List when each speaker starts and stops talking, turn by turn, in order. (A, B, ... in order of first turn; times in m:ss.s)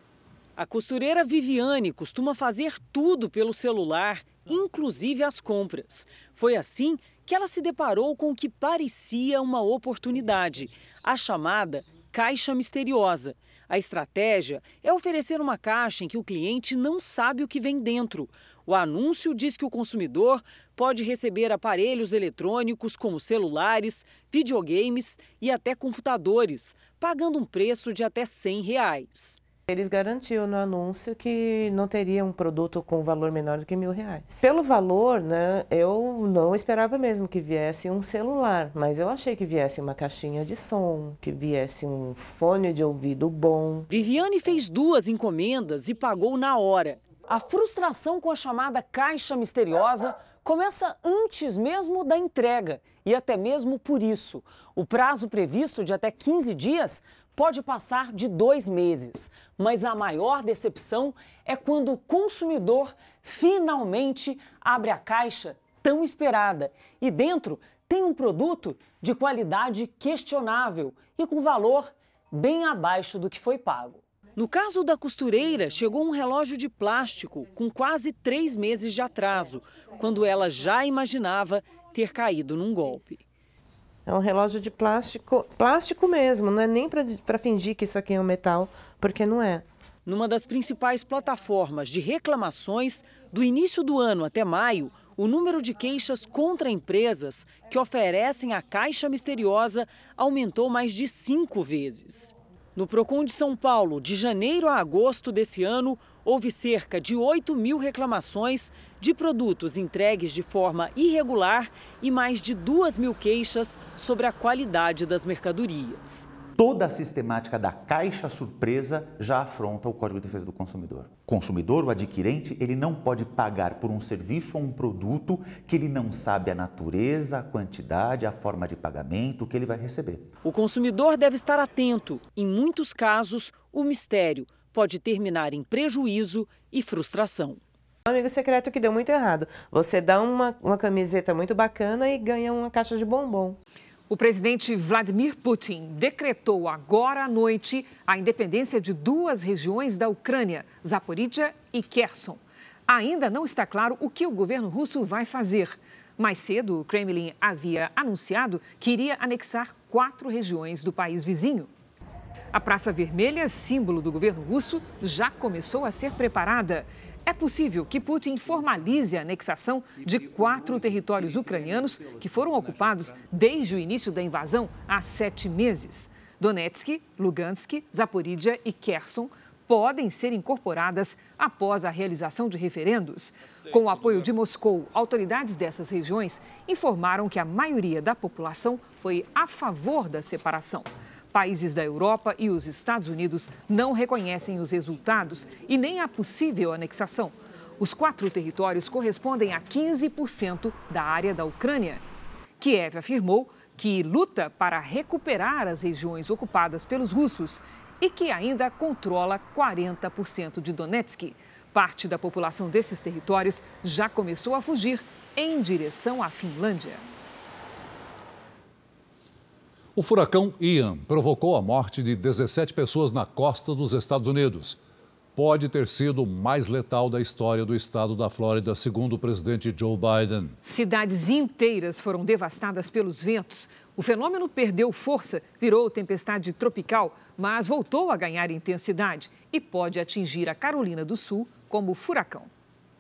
0:00.6-0:29.4 A
0:29.7-0:43.9 B
0:43.9-1:23.2 A
1:24.1-1:29.6 B
1:30.1-1:56.3 A
1:56.6-2:10.3 C
2:10.4-2:17.6 A
2:18.1-2:23.6 B
2:24.1-2:41.7 D
2:42.5-3:22.0 D
3:22.6-3:37.0 D
3:40.0-3:44.8 E
3:45.4-3:50.6 E
3:50.6-4:02.5 D